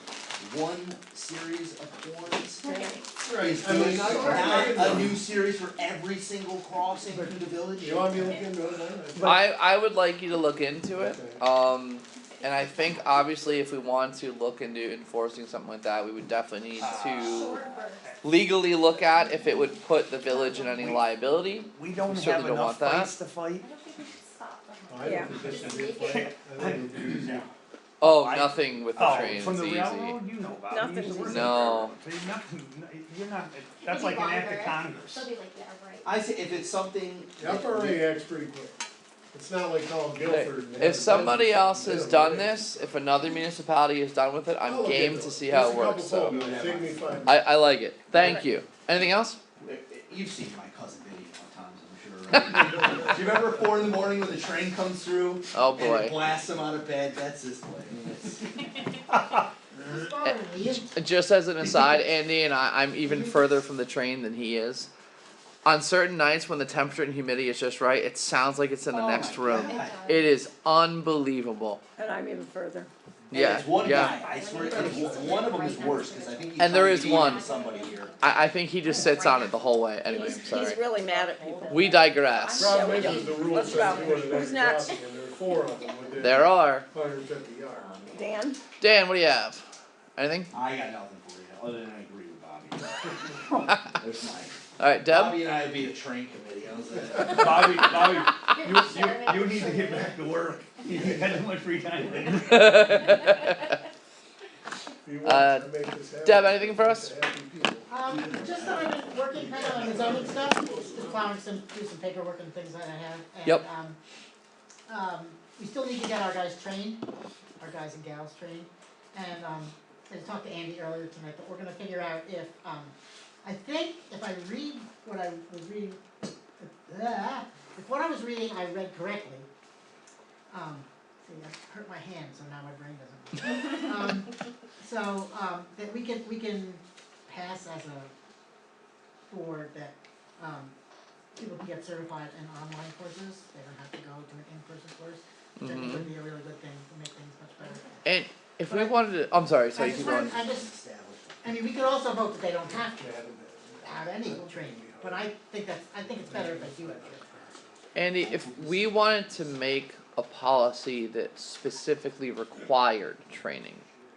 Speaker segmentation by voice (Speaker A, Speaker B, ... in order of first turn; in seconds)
Speaker A: 0.4-8.4, 36.0-38.0, 46.3-47.1, 49.6-58.5, 68.9-70.0, 73.3-78.2, 90.5-97.9, 100.9-101.3, 149.8-151.5, 158.2-159.4
Speaker B: 2.6-3.1, 17.2-18.0, 20.3-20.6, 23.6-26.2, 33.8-36.1, 69.1-70.3, 74.0-80.5, 81.1-83.3, 87.7-88.2, 98.5-100.2
Speaker C: 3.3-5.1, 7.8-9.4, 10.9-11.4, 24.9-27.4, 37.4-38.8, 39.3-42.6, 44.6-47.4, 82.5-88.2, 105.0-111.4, 152.7-155.3, 156.1-157.5
Speaker D: 3.6-4.9, 16.8-18.2, 20.7-21.0, 21.7-23.6, 25.1-27.5, 28.0-35.3, 83.1-84.2, 97.2-103.0
Speaker E: 4.0-4.7, 59.7-61.0, 107.9-114.0, 114.9-117.0, 117.6-126.0, 126.6-129.5, 130.5-138.1, 139.3-140.7, 141.3-148.0, 148.6-149.0, 149.7-150.7, 151.4-153.2, 153.8-157.6
Speaker F: 9.2-17.6, 18.2-23.1, 28.0-30.2, 31.2-31.9, 40.3-46.4, 47.2-49.4, 55.5-56.2, 60.2-64.9, 65.6-71.8, 73.3-74.2, 76.6-77.5, 78.2-80.8, 81.7-83.3, 86.2-86.8, 88.8-89.6, 90.2-90.5, 94.8-95.4, 102.5-103.5, 105.2-107.2, 145.6-146.1, 148.0-150.4, 157.9-163.8
Speaker G: 25.0-25.4, 30.7-31.5, 72.0-72.9, 80.1-81.8, 82.6-85.0, 88.1-88.6